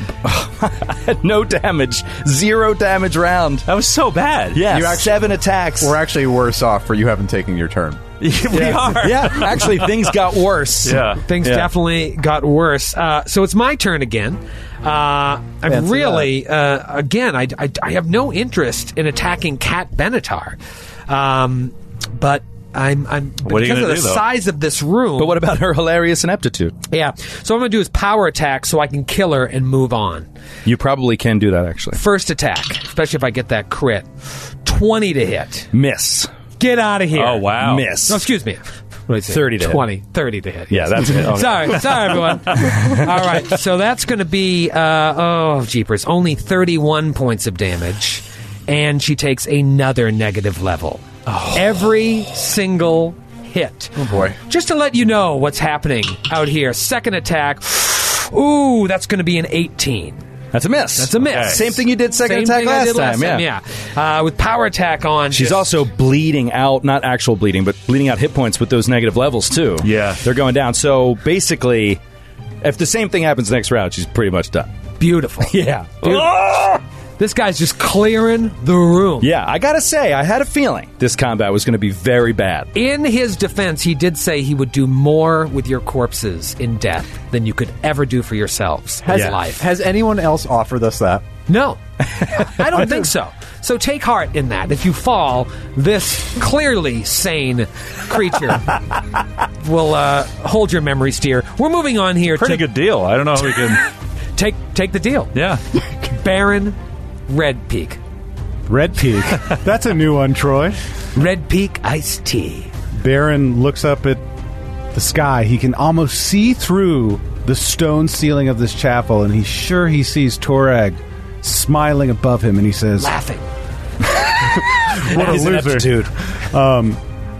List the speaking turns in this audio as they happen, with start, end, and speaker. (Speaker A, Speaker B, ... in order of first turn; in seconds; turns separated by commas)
Speaker A: 0.2-3.6, Speaker B: 3.7-4.6, Speaker A: 4.5-6.0, Speaker C: 4.7-8.0, Speaker B: 8.2-10.1, Speaker A: 8.5-11.7, Speaker B: 10.8-11.2, Speaker D: 11.2-25.4, Speaker C: 15.7-16.3, Speaker B: 23.4-24.2, Speaker A: 25.2-26.7, Speaker D: 26.9-30.3, Speaker A: 30.6-32.0, Speaker D: 31.9-34.1, Speaker D: 34.6-35.7, Speaker A: 35.7-36.3, Speaker D: 36.6-37.5, Speaker B: 37.1-37.9, Speaker A: 37.6-38.2, Speaker D: 38.0-54.0, Speaker A: 39.3-39.9, Speaker A: 40.7-43.5, Speaker B: 41.3-41.7, Speaker C: 54.0-54.4, Speaker D: 54.5-60.2, Speaker A: 60.5-63.5, Speaker D: 61.0-65.8, Speaker B: 61.2-61.6, Speaker A: 65.3-72.0, Speaker B: 69.8-70.2, Speaker A: 72.6-74.7, Speaker D: 75.0-76.3, Speaker A: 75.4-76.8, Speaker D: 77.2-79.3, Speaker A: 79.2-82.7, Speaker D: 82.7-89.6, Speaker C: 89.0-91.2, Speaker D: 91.5-98.7, Speaker A: 92.2-92.9, Speaker D: 99.6-102.6, Speaker B: 102.3-103.8, Speaker D: 104.3-105.3, Speaker B: 105.3-105.6, Speaker D: 106.1-106.8, Speaker D: 107.3-108.0, Speaker E: 108.7-110.8, Speaker D: 111.1-112.7, Speaker E: 112.9-114.2, Speaker E: 114.9-123.1, Speaker D: 123.0-123.5, Speaker A: 124.3-126.1, Speaker E: 124.4-127.0